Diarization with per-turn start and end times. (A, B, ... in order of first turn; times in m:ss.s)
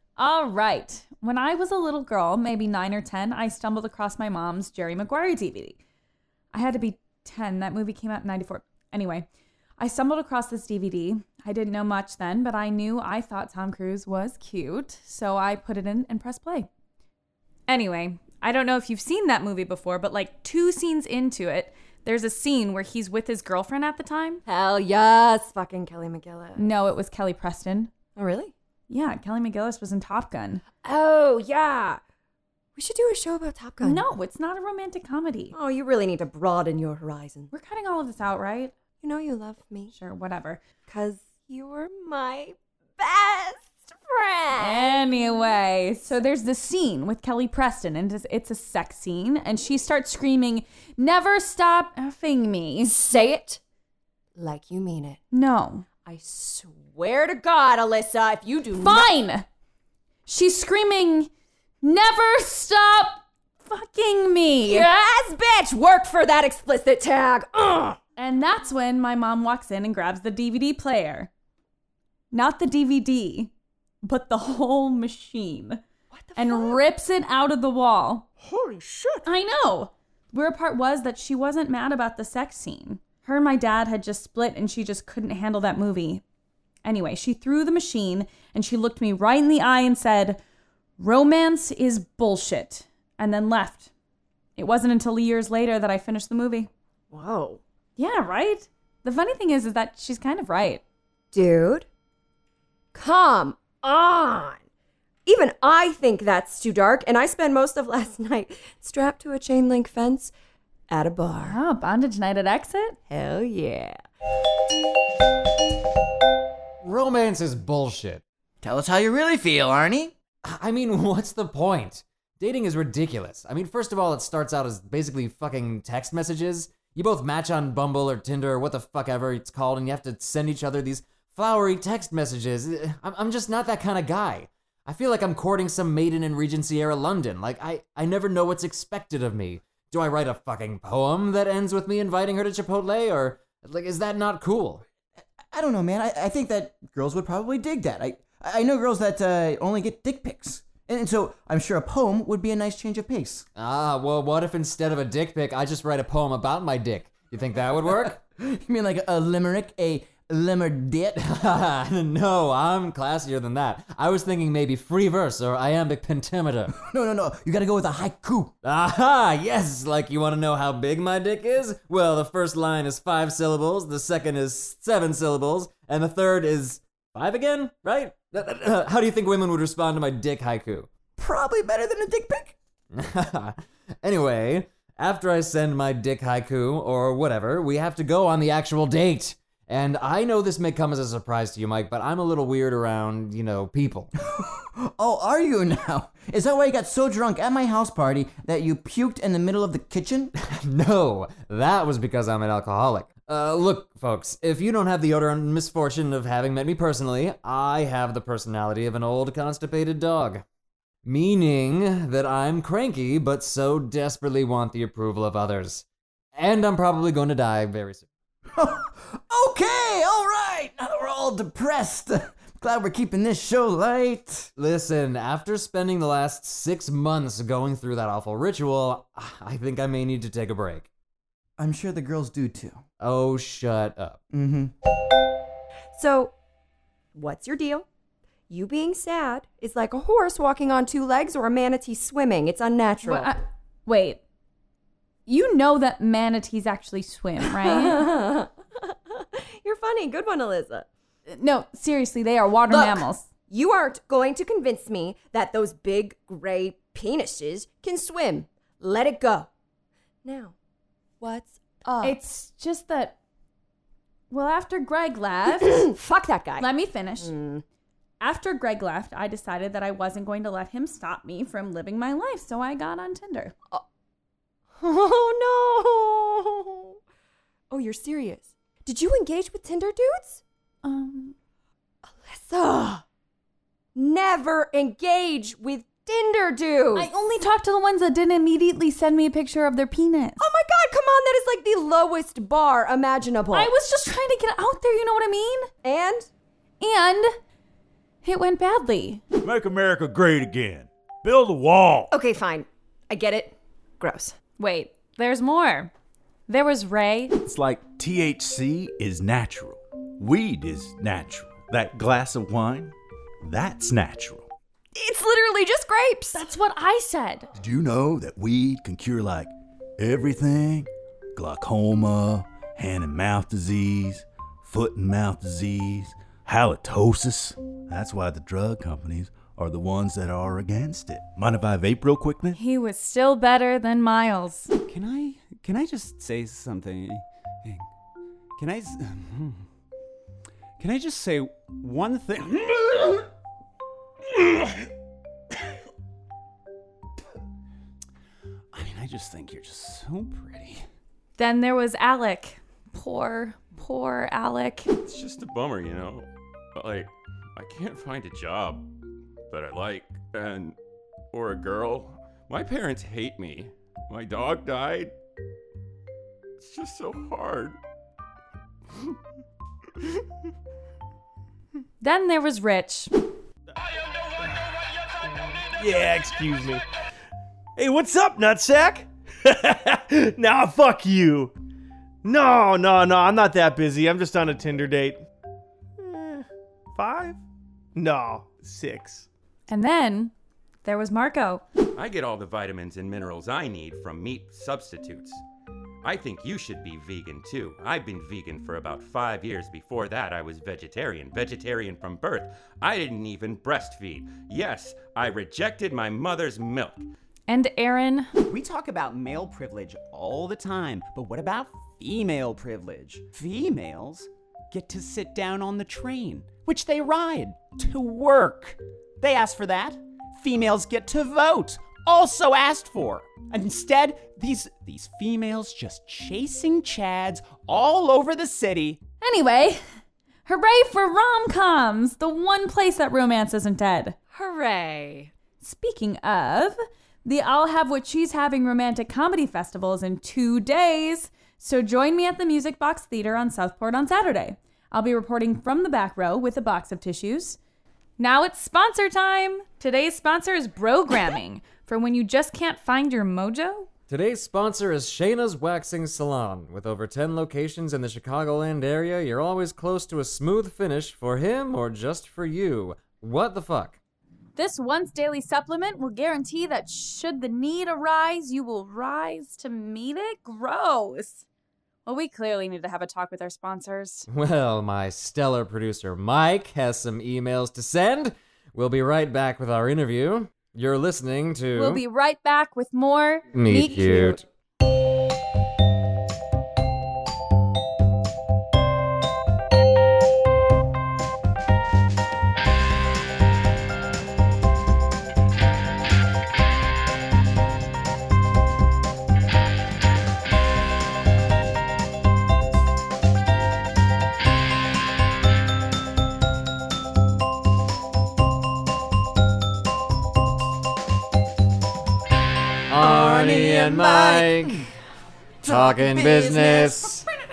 0:00.2-0:05.8 A
0:06.5-0:09.3 A
0:09.8-0:16.7 A
0:17.7-0:24.4 A
0:24.4-0:26.6 B
0:26.6-0:27.9 A
0:28.2-0:28.5 B
0:28.9-0:30.6 A
0:30.8-0:32.0 B
0:32.7-0:34.1 B
0:33.8-0:35.5 A
0:35.5-0:37.5 B
0:37.5-0:38.7 A
0:39.0-0:39.9 B
0:39.9-0:40.6 A
0:40.9-0:45.4 B
0:44.6-0:52.9 A
0:52.8-0:53.6 B
0:54.4-0:55.2 B
0:55.3-0:55.8 A
0:56.0-0:59.1 B
0:58.8-0:59.4 A
1:00.2-1:01.3 A
1:01.8-1:04.9 A
1:04.6-1:08.0 B
1:08.2-1:11.3 A
1:12.3-1:15.8 A
1:16.1-1:16.8 B
1:16.4-1:18.3 A
1:19.2-1:26.2 A
1:26.8-1:30.4 A
1:31.0-1:33.9 A
1:34.6-1:36.7 A
1:37.1-1:37.6 B
1:38.0-1:40.8 A
1:41.3-1:41.9 B
1:42.9-1:44.6 B
1:45.2-1:50.3 B
1:50.9-1:51.6 B
1:51.4-1:53.0 A
1:53.1-1:54.0 B
1:56.8-1:58.2 C
1:58.6-2:00.1 D
2:00.4-2:24.8 C
2:25.5-2:33.4 D
2:33.5-2:38.2 C
2:38.4-2:41.2 D
2:41.2-2:46.7 C
2:46.7-2:48.5 D
2:48.6-3:00.9 C
3:01.2-3:02.5 D
3:02.9-3:14.1 C
3:14.3-3:20.3 D
3:20.4-3:30.4 C
3:31.0-3:38.1 C
3:38.5-3:44.5 D
3:44.6-3:50.9 C
3:51.6-3:52.8 D
3:53.0-3:54.2 C
3:54.3-3:54.7 D
3:55.9-3:56.3 B
3:57.1-3:57.8 B
3:58.5-4:03.3 B
4:03.0-4:04.2 A
4:05.3-4:08.0 A
4:07.5-4:10.9 B
4:11.3-4:13.3 A
4:12.7-4:19.5 B
4:20.2-4:20.5 B
4:21.2-4:22.2 B
4:22.0-4:23.2 A
4:24.3-4:25.9 A
4:25.6-4:26.7 B
4:26.6-4:27.3 A
4:27.2-4:27.6 B
4:28.2-4:33.5 A
4:34.8-4:37.0 B
4:37.7-4:40.4 B
4:40.8-4:41.3 A
4:42.1-4:43.0 B
4:43.9-4:47.1 B
4:46.9-4:50.4 A
4:50.4-4:53.7 B
4:53.5-4:55.7 A
4:55.8-4:56.3 B
4:56.8-4:57.4 A
4:58.2-4:59.2 A
4:59.4-5:02.1 E
5:02.1-5:04.4 B
5:04.6-5:05.9 A
5:06.5-5:07.3 A
5:07.4-5:14.5 E
5:14.9-5:16.5 B
5:16.3-5:17.5 A
5:17.6-5:32.6 E
5:32.6-5:34.7 A
5:34.9-5:37.9 F
5:38.6-5:39.6 F
5:40.8-5:43.2 F
5:48.7-5:50.8 F
5:51.4-5:54.9 A
5:55.0-5:58.8 G
5:59.5-6:00.8 G
6:01.3-6:05.1 G
6:06.6-6:07.8 G
6:12.0-6:13.1 A
6:15.7-6:16.8 H
6:17.8-6:21.5 H
6:22.2-6:25.2 H
6:26.0-6:27.4 H
6:27.9-6:29.3 H
6:29.7-6:30.3 A
6:30.8-6:31.6 A
6:32.0-6:35.4 G
6:36.0-6:47.1 G
6:47.5-6:48.3 A
6:48.5-7:09.0 F
7:09.2-7:09.8 A
7:10.4-7:14.2 A
7:14.3-7:15.3 B
7:15.6-7:27.6 A
7:28.2-7:33.9 A
7:34.1-7:44.0 C
7:44.6-7:51.4 A
7:52.0-7:54.3 A
7:54.3-8:02.0 C
8:01.7-8:04.4 A
8:03.5-8:04.4 C
8:32.9-8:34.9 C
8:33.0-8:34.9 D
8:35.6-8:37.2 D
8:35.6-8:37.3 C